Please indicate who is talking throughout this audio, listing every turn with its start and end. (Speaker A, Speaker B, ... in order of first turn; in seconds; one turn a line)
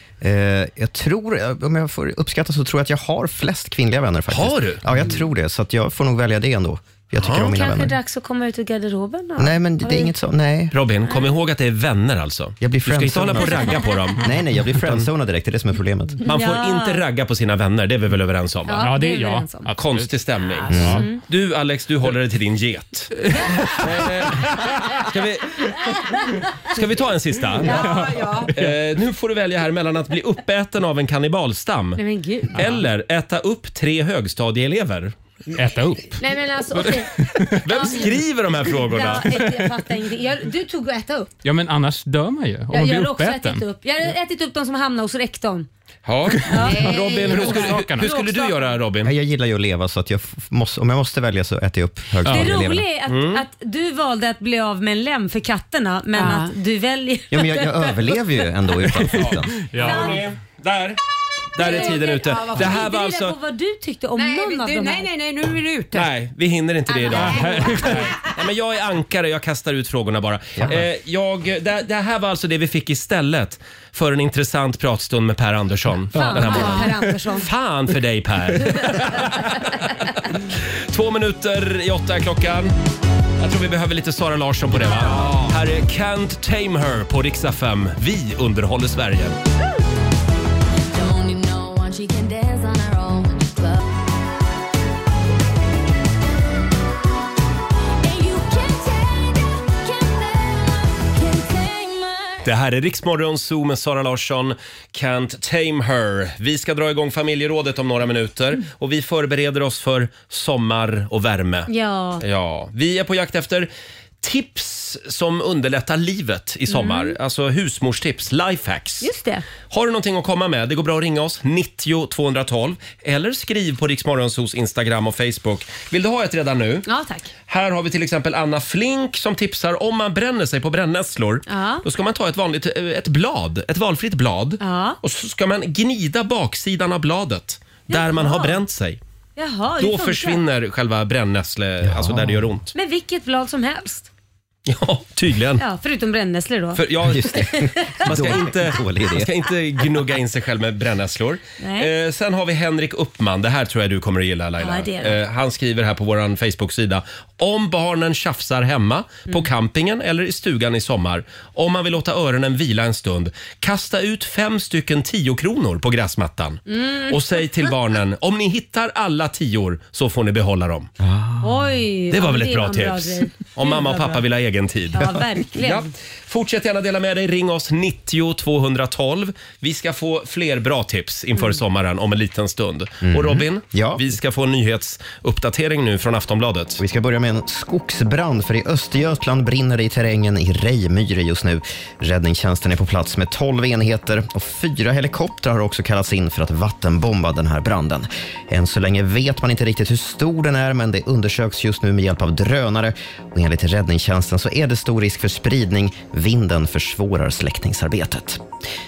Speaker A: 0.2-7.9
Speaker B: 4.3-4.8
Speaker B: 7.2-7.5
Speaker C: 7.3-10.1
Speaker A: 9.4-10.7
Speaker B: 10.7-14.2
Speaker A: 12.6-16.2
Speaker B: 14.7-15.1
Speaker C: 16.2-17.0
Speaker B: 16.2-18.9
Speaker C: 18.7-19.7
Speaker D: 18.8-20.1
Speaker B: 19.7-23.1
Speaker E: 20.5-21.0
Speaker A: 20.7-21.0
Speaker D: 20.7-21.0
Speaker C: 20.9-21.2
Speaker D: 23.3-24.7
Speaker B: 23.8-25.8
Speaker B: 26.7-28.0
Speaker E: 27.6-28.5
Speaker D: 27.7-28.5
Speaker B: 28.6-32.0
Speaker C: 31.9-32.6
Speaker B: 32.5-35.1
Speaker D: 32.5-32.8
Speaker D: 35.5-36.1
Speaker C: 36.2-38.1
Speaker D: 36.7-37.6
Speaker B: 37.6-39.4
Speaker C: 38.7-41.3
Speaker D: 41.4-43.6
Speaker C: 42.7-45.7
Speaker B: 46.0-49.1
Speaker C: 46.5-48.8
Speaker E: 46.5-47.5
Speaker D: 46.5-48.1
Speaker A: 49.0-52.8
Speaker C: 52.2-57.9
Speaker B: 53.1-53.4
Speaker E: 56.1-56.5
Speaker A: 57.3-59.5
Speaker B: 59.1-61.0
Speaker D: 59.3-60.2
Speaker C: 59.8-60.2
Speaker B: 61.5-63.4
Speaker C: 61.6-65.0
Speaker E: 61.6-62.9
Speaker E: 64.2-66.1
Speaker B: 65.9-82.7
Speaker E: 66.9-68.2
Speaker D: 67.1-68.2
Speaker D: 76.1-76.5
Speaker C: 76.1-77.5
Speaker E: 76.5-76.9
Speaker B: 83.4-89.4
Speaker D: 84.9-85.4
Speaker F: 90.9-93.8
Speaker F: 98.0-102.5
Speaker B: 102.4-111.7
Speaker C: 111.7-112.2
Speaker B: 112.2-113.7
Speaker B: 114.2-119.1
Speaker C: 116.7-117.2
Speaker C: 119.0-119.4
Speaker B: 119.7-126.9
Speaker C: 126.9-127.3
Speaker B: 127.5-139.0
Speaker C: 131.5-131.8
Speaker C: 134.6-135.0
Speaker C: 137.9-138.6
Speaker C: 139.4-140.4
Speaker B: 139.8-142.7
Speaker A: 141.8-142.4
Speaker C: 142.7-144.1
Speaker B: 144.7-145.6
Speaker C: 145.6-146.8
Speaker B: 146.7-170.9
Speaker A: 147.1-149.3
Speaker C: 147.3-148.0
Speaker C: 151.6-151.9
Speaker C: 154.6-155.2
Speaker C: 166.7-167.4
Speaker A: 171.0-171.6
Speaker C: 171.4-174.2
Speaker B: 172.1-186.8
Speaker C: 174.9-175.9
Speaker A: 183.0-184.0
Speaker A: 186.8-208.4